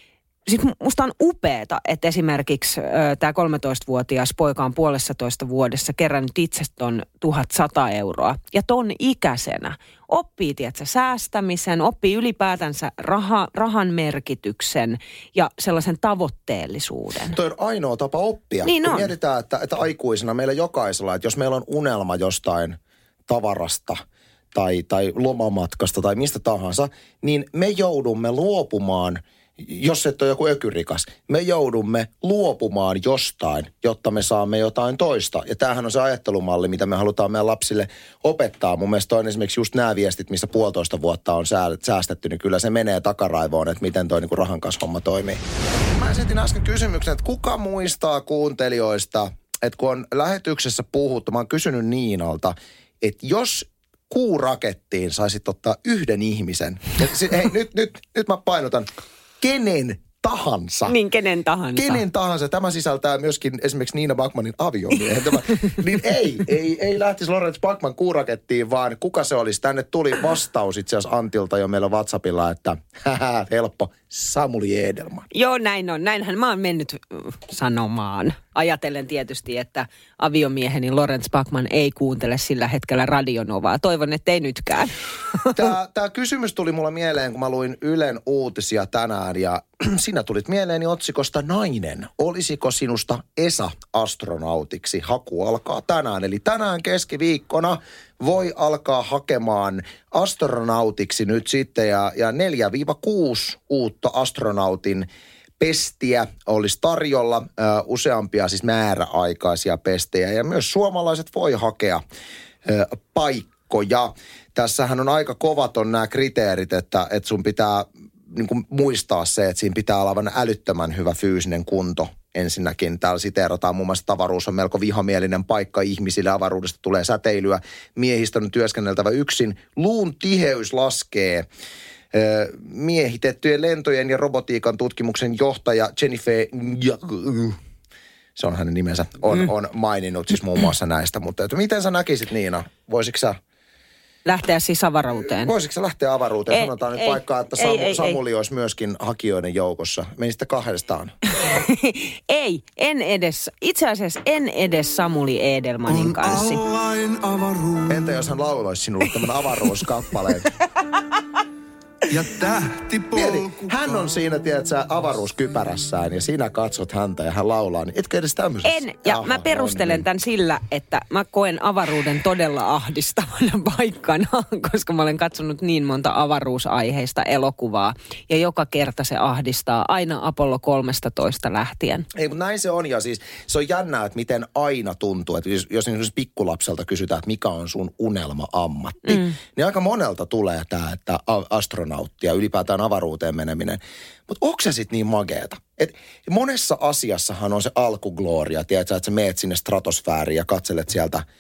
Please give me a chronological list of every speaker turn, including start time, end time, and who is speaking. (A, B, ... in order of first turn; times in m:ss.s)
0:00.5-0:17.4 A
0:17.3-0:24.0 B
0:18.6-0:19.1 A
0:24.5-0:45.4 B
0:46.0-0:58.9 B
0:59.4-1:01.0 B
1:00.9-1:02.0 A
1:01.7-1:15.3 B
1:15.3-1:25.7 A
1:25.5-1:45.1 B
1:45.6-1:52.0 B
1:52.6-2:11.5 B
2:12.1-2:17.6 B
2:18.4-2:23.4 B
2:24.3-2:25.5 A
2:25.2-2:31.2 B
2:26.5-2:28.2 A
2:31.4-2:36.6 A
2:35.9-2:38.2 C
2:37.9-2:40.5 B
2:42.1-2:44.3 C
2:43.1-2:50.0 B
2:48.6-3:02.1 A
3:02.1-3:21.2 B
3:09.1-3:09.4 A